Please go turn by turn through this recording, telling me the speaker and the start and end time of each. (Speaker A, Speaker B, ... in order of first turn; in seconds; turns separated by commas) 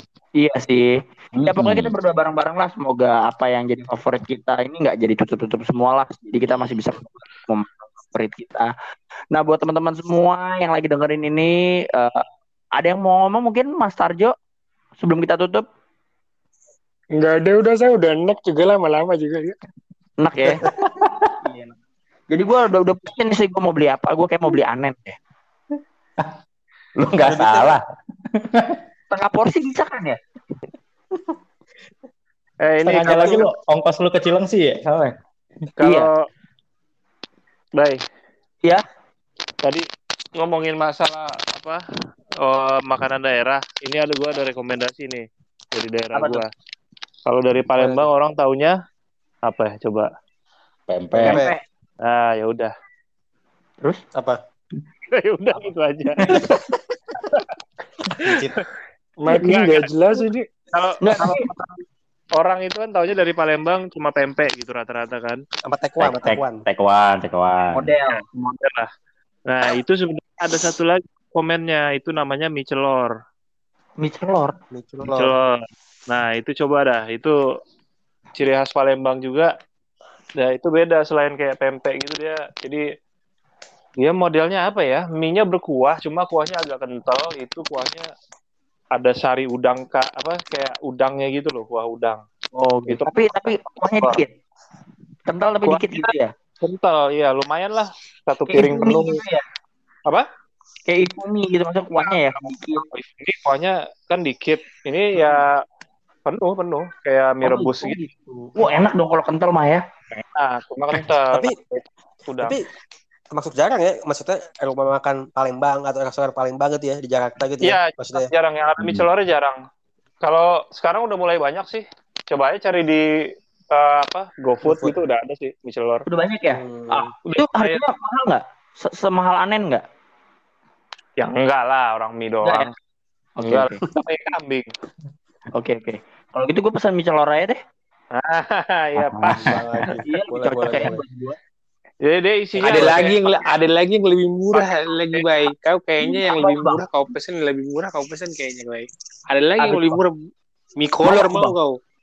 Speaker A: 0.4-8.7, Speaker B: 1.3-1.9, Speaker A: 9.3-12.2, Speaker A: 12.8-14.3, Speaker A: 15.0-15.7, Speaker C: 17.1-19.6, Speaker A: 20.2-20.6, Speaker D: 20.5-20.7, Speaker B: 20.8-21.3, Speaker A: 21.4-21.8, Speaker A: 22.3-25.1, Speaker A: 27.0-27.4, Speaker B: 27.1-28.8, Speaker D: 27.2-27.8, Speaker A: 29.1-30.2, Speaker E: 32.6-33.4, Speaker B: 32.8-35.1, Speaker E: 35.8-36.2, Speaker A: 35.8-36.1, Speaker E: 40.4-41.8, Speaker E: 42.4-46.5, Speaker A: 46.1-46.4, Speaker E: 47.2-48.7, Speaker D: 47.8-48.0, Speaker E: 49.5-50.1, Speaker B: 50.9-51.4, Speaker A: 51.2-51.6, Speaker D: 51.2-51.5, Speaker E: 52.0-52.7, Speaker E: 55.1-56.4, Speaker D: 56.2-56.8, Speaker E: 58.2-58.6, Speaker D: 58.2-58.6, Speaker C: 59.2-60.5, Speaker E: 59.3-61.4, Speaker A: 61.0-61.8, Speaker E: 62.4-65.4, Speaker D: 65.6-66.6, Speaker B: 66.0-67.9, Speaker A: 67.7-68.2, Speaker E: 68.3-68.9, Speaker E: 69.5-73.1, Speaker A: 74.0-74.5, Speaker D: 74.7-75.3, Speaker E: 75.1-77.4, Speaker E: 78.3-79.5, Speaker E: 80.4-82.8, Speaker E: 84.0-88.1, Speaker E: 88.9-92.2, Speaker A: 92.5-94.3, Speaker A: 95.3-96.3, Speaker E: 95.6-96.0, Speaker E: 96.6-99.2, Speaker A: 98.5-99.4, Speaker A: 100.9-102.9, Speaker E: 102.9-105.6, Speaker E: 106.2-108.0, Speaker A: 107.4-109.8, Speaker E: 110.2-112.6, Speaker D: 111.3-111.5, Speaker D: 112.4-112.6, Speaker D: 113.3-118.3, Speaker E: 117.6-119.6, Speaker B: 118.8-119.1, Speaker E: 120.2-123.0, Speaker E: 123.7-126.0, Speaker D: 124.6-124.9, Speaker A: 126.1-129.8, Speaker D: 126.5-127.1, Speaker E: 131.2-132.7, Speaker A: 132.4-132.7, Speaker A: 133.4-133.8, Speaker E: 133.5-134.7, Speaker A: 135.5-137.6, Speaker E: 138.1-139.5, Speaker B: 139.0-139.8, Speaker D: 139.3-141.0, Speaker A: 140.1-141.4, Speaker E: 142.1-143.1, Speaker F: 142.6-150.1, Speaker E: 144.5-145.2, Speaker A: 146.0-146.8, Speaker A: 149.6-150.0, Speaker F: 150.8-151.8, Speaker A: 151.0-151.5